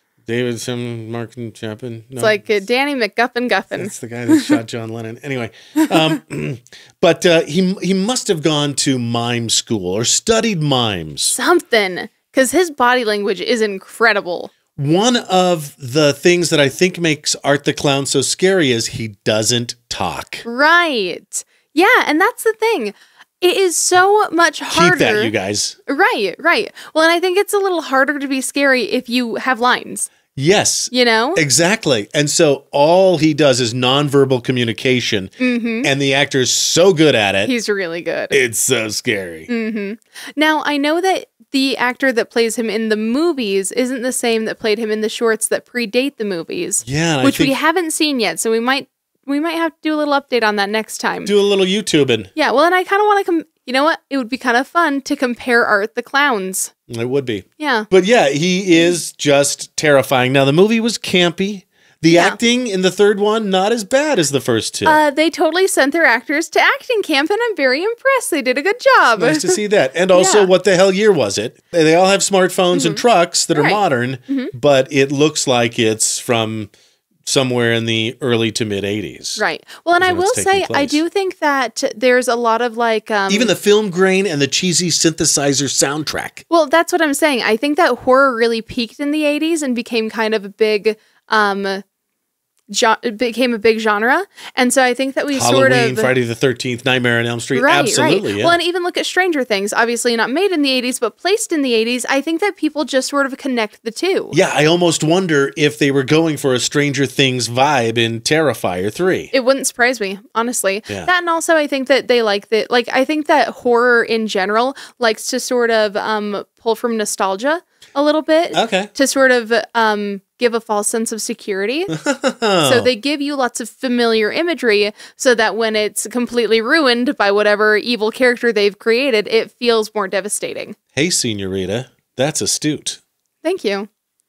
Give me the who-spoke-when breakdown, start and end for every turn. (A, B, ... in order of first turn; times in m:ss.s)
0:00.2-0:02.6 A
0:02.2-0:04.6 B
0:03.7-0:11.4 A
0:11.3-0:14.5 B
0:14.7-0:20.4 A
0:20.4-0:25.3 B
0:24.7-0:25.8 A
0:25.9-0:30.1 B
0:30.3-0:37.5 A
0:30.9-0:31.4 B
0:35.4-0:35.9 B
0:37.4-0:38.3 B
0:38.3-0:39.5 A
0:39.5-0:51.3 B
0:46.8-0:47.5 A
0:51.2-0:52.3 A
0:52.4-0:56.7 B
0:56.9-1:05.0 A
0:57.6-0:57.9 B
1:02.1-1:02.4 B
1:04.8-1:09.6 B
1:09.2-1:16.7 A
1:10.1-1:10.5 B
1:12.7-1:13.0 B
1:13.5-1:14.5 B
1:17.2-1:19.4 A
1:19.4-1:23.5 B
1:20.0-1:21.0 A
1:23.3-1:26.4 A
1:26.5-1:31.8 B
1:32.7-1:36.1 B
1:35.3-1:38.6 A
1:37.5-1:44.3 B
1:44.3-1:49.3 A
1:49.3-2:01.9 B
1:58.5-1:58.9 A
2:01.9-2:02.9 A
2:02.6-2:10.8 B
2:10.9-2:13.0 A
2:13.4-2:13.9 B